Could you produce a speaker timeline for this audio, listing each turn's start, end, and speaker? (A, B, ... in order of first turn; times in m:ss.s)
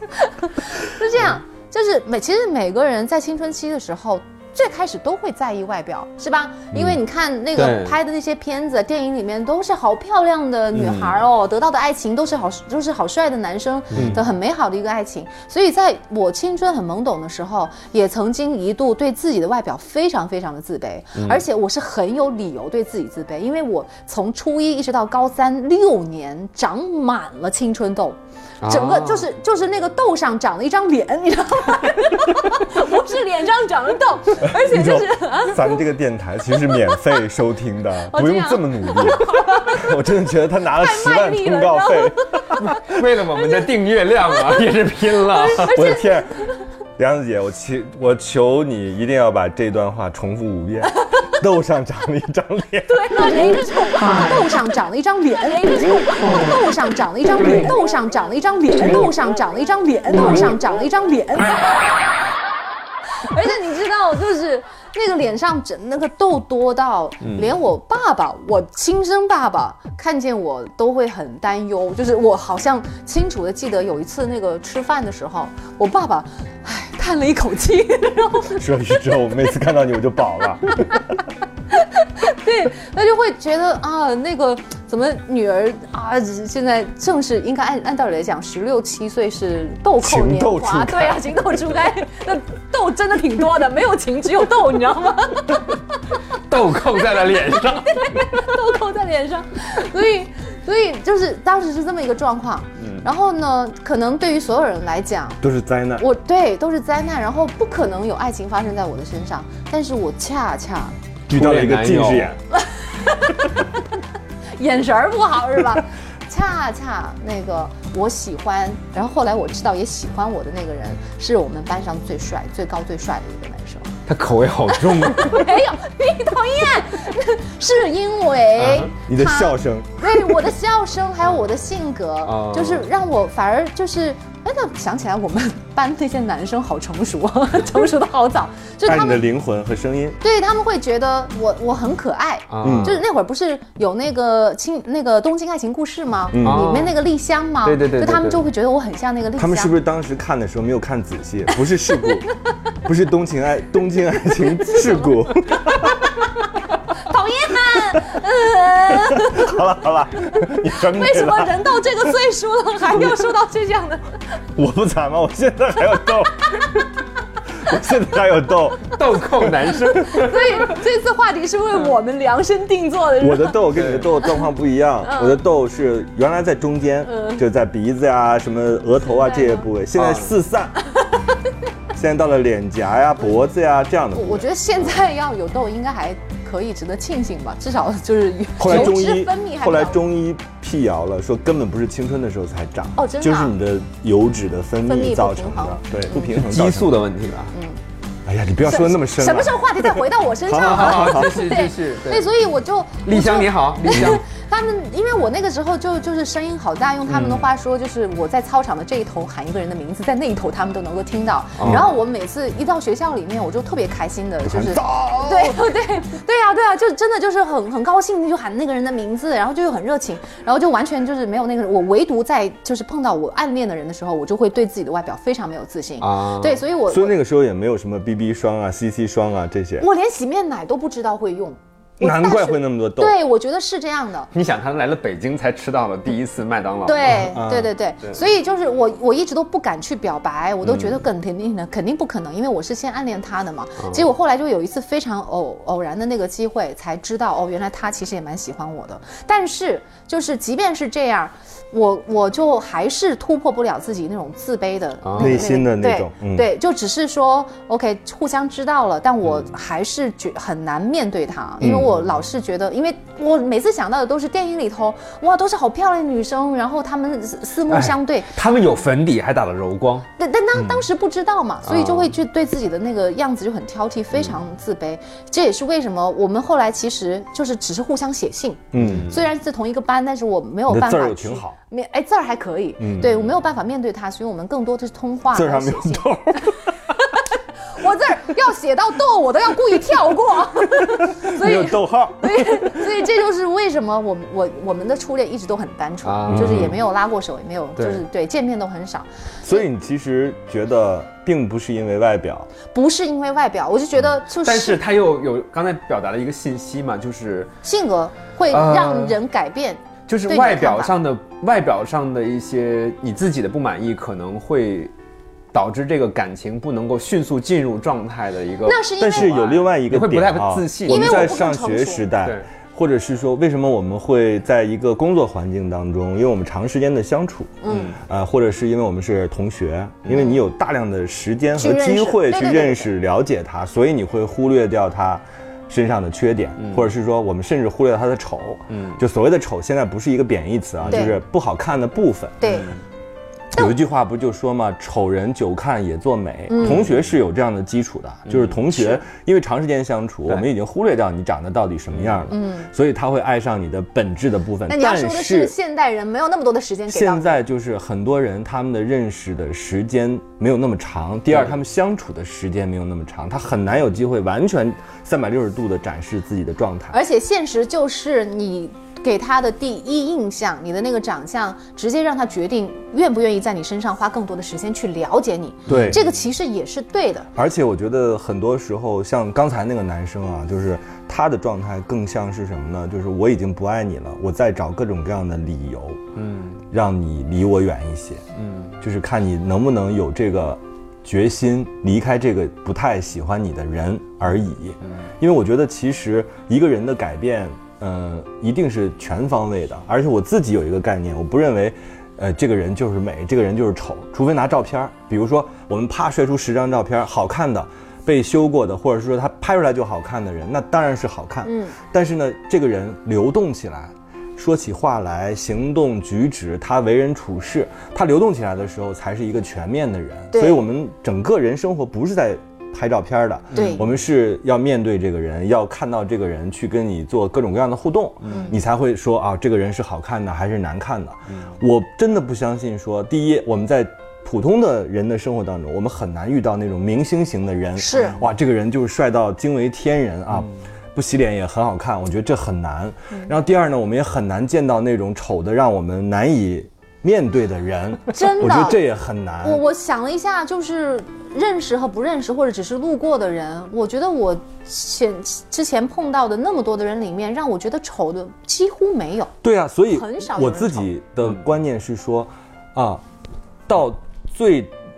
0:00.1-0:35.8 A
0:07.5-0:08.0 B
0:10.7-0:11.2 B
0:13.9-0:14.2 B
0:21.1-0:21.4 B
0:28.6-0:29.3 B
0:34.4-0:42.4 C
0:38.1-0:39.9 A
0:40.7-0:43.7 A
0:42.6-0:45.8 B
0:45.3-0:46.4 A
0:45.6-0:46.3 C
0:47.0-0:53.6 C
0:52.9-1:01.8 A
1:03.2-1:18.7 A
1:07.2-1:07.5 B
1:18.5-1:21.0 C
1:20.7-1:21.0 A
1:21.7-1:35.8 A
1:30.0-1:31.3 C
1:36.5-1:38.1 B
1:37.3-1:45.4 A
1:42.8-1:43.0 B
1:45.4-1:46.0 C
1:46.0-1:50.9 A
1:51.3-1:52.4 C
1:51.3-1:52.4 B
1:52.5-1:53.8 A
1:54.6-2:03.9 A
2:04.1-2:05.5 B
2:04.7-2:19.2 A
2:08.6-2:08.9 B
2:09.1-2:10.5 C
2:12.2-2:12.9 B
2:18.8-2:20.2 C
2:20.2-2:29.7 A
2:22.5-2:23.0 B
2:22.6-2:23.0 C
2:26.3-2:26.7 C
2:26.4-2:27.0 B
2:27.6-2:28.4 B
2:29.4-2:32.3 C
2:32.8-2:36.1 C
2:34.5-2:35.2 A
2:36.9-2:39.6 A
2:38.9-2:41.6 C
2:40.7-2:44.1 A
2:44.5-2:46.7 C
2:47.5-2:49.0 C
2:48.9-2:50.8 B
2:49.9-2:53.6 A
2:53.2-3:00.8 C
2:53.7-2:54.1 B
2:55.0-2:55.4 A
2:57.0-2:57.4 A
2:59.2-2:59.6 A
3:00.0-3:00.3 B
3:01.9-3:04.4 C
3:04.1-3:10.1 A
3:08.6-3:17.0 C
3:08.6-3:08.9 B
3:13.0-3:13.5 A
3:14.8-3:16.3 A
3:16.1-3:17.5 B
3:17.5-3:17.8 A
3:18.2-3:21.4 C
3:18.6-3:47.1 A
3:20.6-3:22.3 B
3:23.0-3:24.2 B
3:27.1-3:27.4 B
3:31.6-3:31.9 B
3:34.4-3:35.6 C
3:46.0-3:46.6 B
3:46.9-3:49.8 C
3:49.8-3:54.3 A
3:52.0-3:53.1 C
3:54.3-3:57.3 B
3:56.8-4:28.3 A
3:57.3-3:57.7 C
4:00.6-4:01.0 B
4:03.8-4:04.1 B
4:15.0-4:15.4 B
4:15.2-4:16.5 C
4:21.6-4:21.9 C
4:27.7-4:30.8 B
4:30.2-4:59.1 A
4:31.6-4:32.1 B
4:38.7-4:39.1 C
4:38.8-4:39.2 B
4:40.7-4:41.6 C
4:42.8-4:43.1 C
4:43.0-4:43.2 B
4:45.3-4:46.7 C
4:50.8-4:52.9 C
4:56.0-4:56.8 B
4:56.3-4:56.7 C
4:57.8-4:58.0 B
4:59.4-5:02.5 C
5:02.7-5:04.8 A
5:04.4-5:07.6 B
5:07.6-5:10.9 A
5:08.5-5:09.2 B
5:10.1-5:14.9 B
5:15.5-5:21.4 B
5:18.6-5:19.6 A
5:19.0-5:42.5 C
5:20.9-5:22.1 A
5:27.6-5:27.9 A
5:27.7-5:28.0 B
5:30.1-5:30.3 B
5:31.6-5:32.9 A
5:36.6-5:36.9 B
5:38.7-5:39.0 B
5:40.8-5:41.1 B
5:40.9-5:41.2 A
5:42.4-5:42.7 A
5:42.4-5:42.8 B
5:43.5-5:55.5 C
5:46.5-5:46.8 A
5:46.6-5:47.0 B
5:48.2-5:48.6 B
5:48.7-5:49.0 A
5:51.9-5:52.3 B
5:52.3-5:52.7 A
5:54.7-5:57.4 A
5:56.9-6:07.0 C
6:06.9-6:17.3 A
6:15.7-6:16.0 C
6:15.7-6:16.2 B
6:17.3-6:26.0 C
6:26.1-6:26.6 B
6:26.7-6:28.2 C
6:28.4-6:28.8 B
6:28.8-7:29.6 C
6:34.8-6:35.1 B
6:51.4-6:51.8 A
7:00.3-7:00.6 A
7:03.5-7:03.9 B
7:03.5-7:03.8 A
7:08.2-7:08.5 B
7:08.3-7:08.6 A
7:17.8-7:18.2 A
7:28.1-7:28.8 A
7:29.4-7:39.3 A
7:39.4-7:43.0 C
7:39.9-7:40.9 A
7:43.7-7:44.7 C